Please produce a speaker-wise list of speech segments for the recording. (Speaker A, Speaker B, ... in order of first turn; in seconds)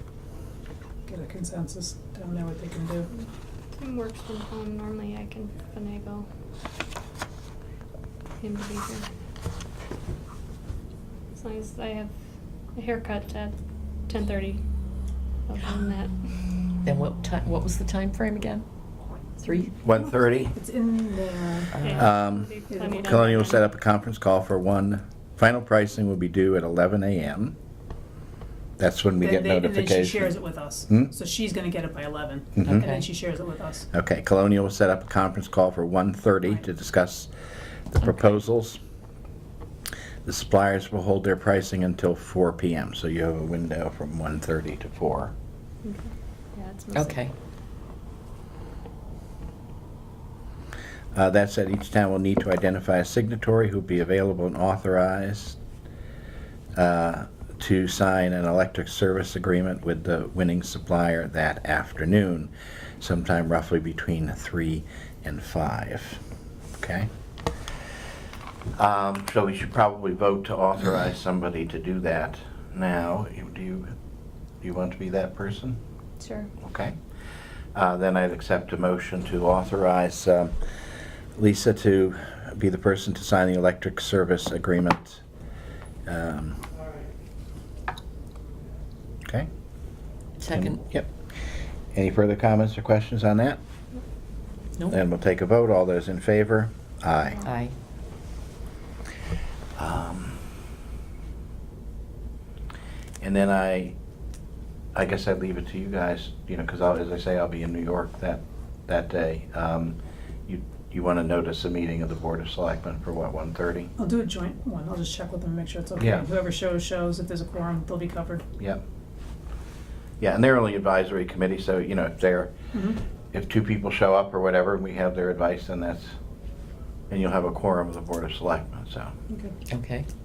Speaker A: 1.1-3.1, 20.5-21.7, 22.7-23.1, 29.2-33.9, 114.0-118.4, 122.7-123.0
Speaker B: 3.1-6.3, 8.4-9.1, 11.3-12.1, 12.8-13.6, 14.1-14.6, 15.5-16.1, 21.8-23.6, 45.8-47.2, 76.2-76.5
Speaker C: 16.9-18.7, 19.4-19.7, 21.8-22.1, 32.7-33.0, 46.9-47.3, 90.4-90.8, 97.4-97.7, 129.7-130.1
Speaker D: 19.8-20.6, 21.9-27.6, 28.8-30.3, 32.6-33.0, 33.9-37.3, 37.9-38.8, 40.3-45.3, 51.1-55.6, 56.8-66.2, 66.8-67.1, 68.8-73.9, 74.6-75.8, 76.6-77.0, 77.8-80.6, 81.4-85.2, 86.1-86.6, 90.5-91.1, 91.9-93.6, 94.9-97.4, 99.8-100.4, 103.2-104.0, 104.9-110.0, 110.5-113.9, 116.0-116.3, 120.2-122.5, 123.3-126.2, 127.1-129.1